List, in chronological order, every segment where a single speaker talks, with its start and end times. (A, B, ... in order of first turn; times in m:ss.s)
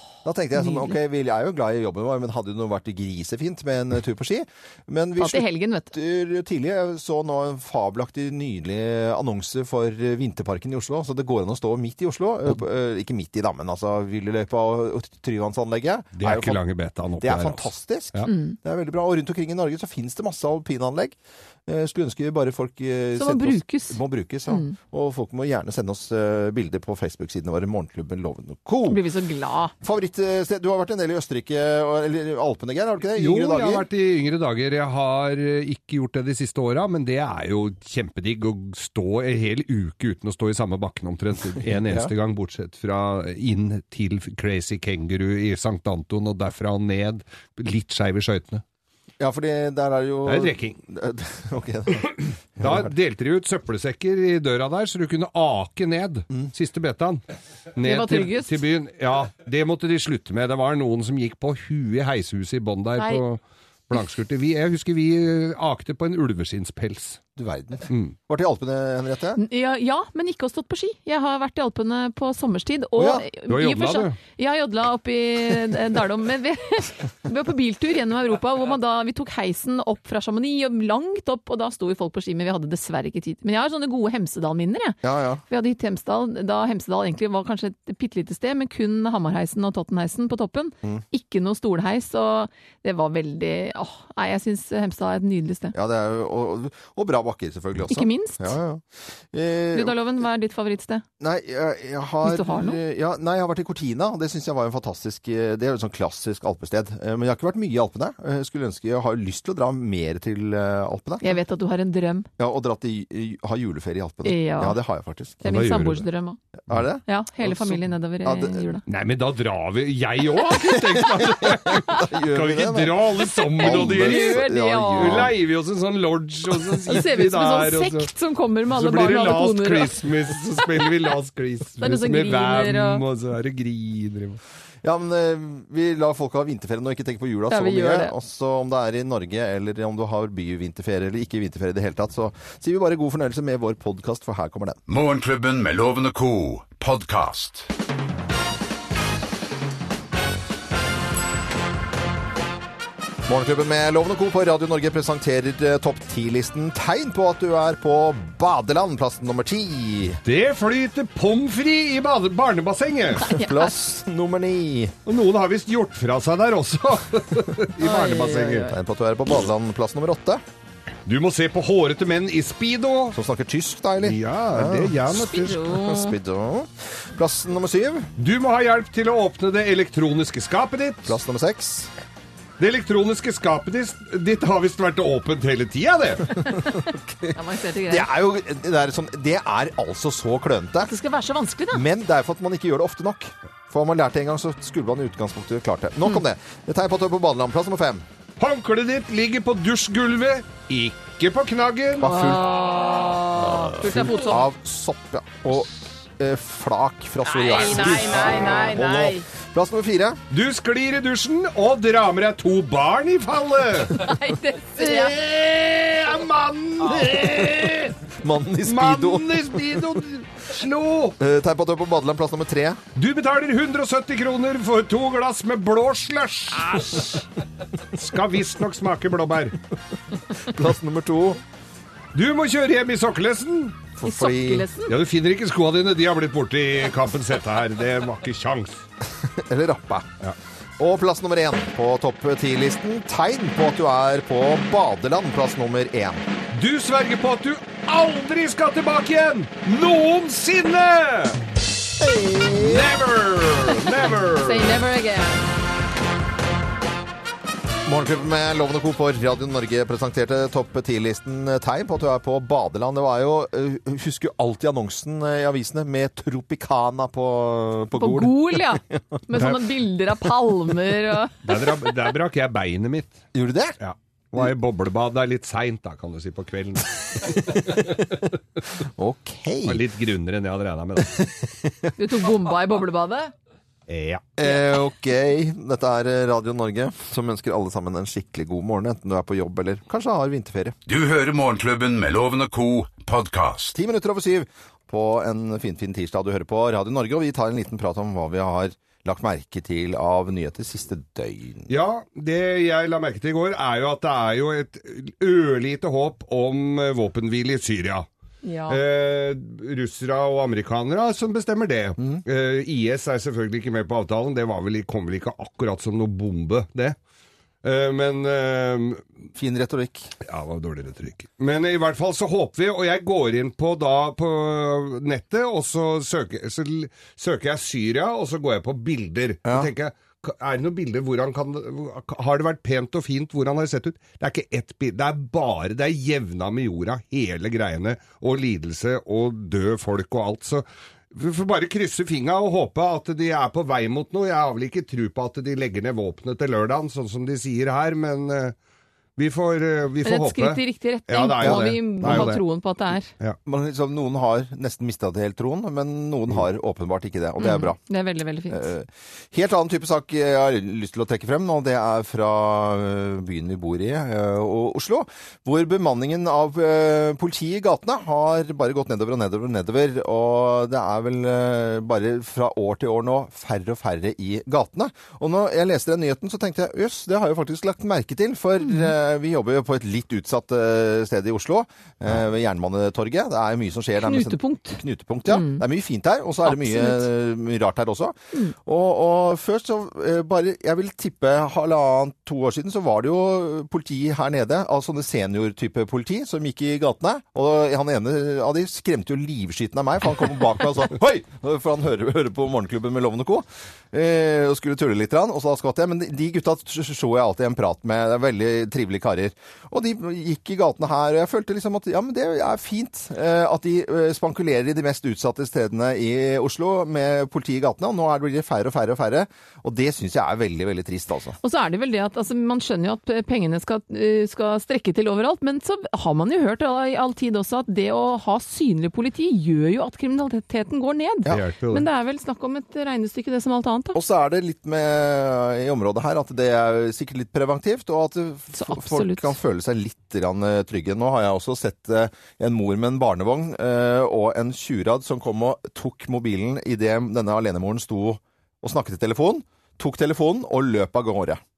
0:00.2-0:16.6 A
0:00.5-0:01.0 B
0:05.2-0:05.9 B
0:16.2-0:18.3 C
0:17.2-0:21.2 A
0:18.2-0:18.6 B
0:21.7-0:29.0 A
0:23.2-0:24.7 B
0:28.9-0:29.7 B
0:29.8-0:33.9 A
0:33.2-0:48.6 C
0:41.8-0:42.1 A
0:49.2-0:52.9 A
0:50.2-0:50.8 C
0:52.0-0:57.2 C
0:57.7-1:07.2 C
0:57.8-0:58.6 B
1:07.4-1:09.4 A
1:07.9-1:08.1 C
1:09.4-1:35.7 B
1:13.0-1:13.2 A
1:13.5-1:14.2 C
1:25.0-1:25.4 A
1:35.7-1:40.0 A
1:37.9-1:38.5 B
1:39.7-1:41.0 B
1:41.2-1:51.4 A
1:42.2-1:42.8 B
1:51.2-1:52.3 B
1:52.4-1:55.4 A
1:54.2-1:54.8 B
1:55.4-1:56.4 B
1:55.5-1:56.0 C
1:56.6-1:58.7 A
1:57.0-1:58.8 B
1:58.9-2:08.1 C
2:00.9-2:05.3 A
2:03.6-2:05.2 B
2:06.8-2:10.0 B
2:08.7-2:14.4 C
2:11.8-2:13.0 B
2:14.8-2:24.8 A
2:17.5-2:18.1 B
2:24.9-2:27.7 D
2:33.3-2:40.2 A
2:40.2-2:43.4 C
2:43.2-2:44.9 A
2:45.0-2:48.7 C
2:47.8-2:48.7 B
2:48.7-2:50.4 A
2:51.0-2:53.2 C
2:53.1-2:58.1 A
2:54.0-2:55.7 C
2:55.1-2:56.1 B
2:58.2-3:01.2 C
3:01.0-3:01.9 A
3:02.6-3:06.4 C
3:06.5-3:08.1 B
3:06.9-3:07.3 A
3:07.9-3:10.9 A
3:10.8-3:11.8 B
3:11.7-3:18.0 A
3:18.4-3:22.1 C
3:22.0-3:22.6 A
3:22.0-3:24.5 B
3:23.7-3:30.2 A
3:27.2-3:29.2 B
3:27.6-3:28.3 C
3:30.3-3:34.1 C
3:33.9-3:35.1 B
3:34.8-3:37.9 C
3:38.2-3:39.9 A
3:38.6-3:41.2 C
3:41.2-3:42.8 A
3:43.0-3:47.2 C
3:47.9-3:49.6 C
3:50.4-3:51.4 A
3:52.1-3:53.8 C
3:54.0-3:54.7 A
3:54.0-3:54.9 B
3:54.9-3:58.8 C
3:59.2-4:00.1 A
4:00.8-4:06.2 A
4:06.5-4:11.4 C
4:12.0-4:12.9 A
4:12.6-4:14.8 C
4:14.4-4:15.4 B
4:17.8-4:29.2 A
4:27.9-4:31.4 B
4:31.4-4:33.2 C
4:33.3-4:33.7 A
4:33.8-4:38.0 C
4:37.3-4:38.2 A
4:38.8-4:39.8 A
4:39.6-4:41.3 C
4:41.2-4:41.9 A
4:42.0-4:43.3 B
4:43.9-4:44.2 C
4:44.4-4:50.7 A
4:50.9-4:53.7 D
4:53.7-5:01.7 A
5:01.7-5:08.0 C
5:08.4-5:08.8 B
5:08.7-5:17.0 C
5:17.6-5:19.0 C
5:19.4-5:20.1 A
5:20.2-5:48.5 C
5:29.4-5:29.7 A
5:49.2-5:52.4 C
5:50.0-5:53.1 B
5:51.4-5:52.4 A
5:53.4-5:57.8 A
5:57.4-5:58.7 B
5:58.5-7:01.4 A
6:18.6-6:18.9 B
6:24.0-6:25.6 B
6:26.4-6:27.1 B
7:01.4-7:14.0 B
7:11.3-7:11.9 C
7:13.9-7:31.4 A
7:18.5-7:19.3 B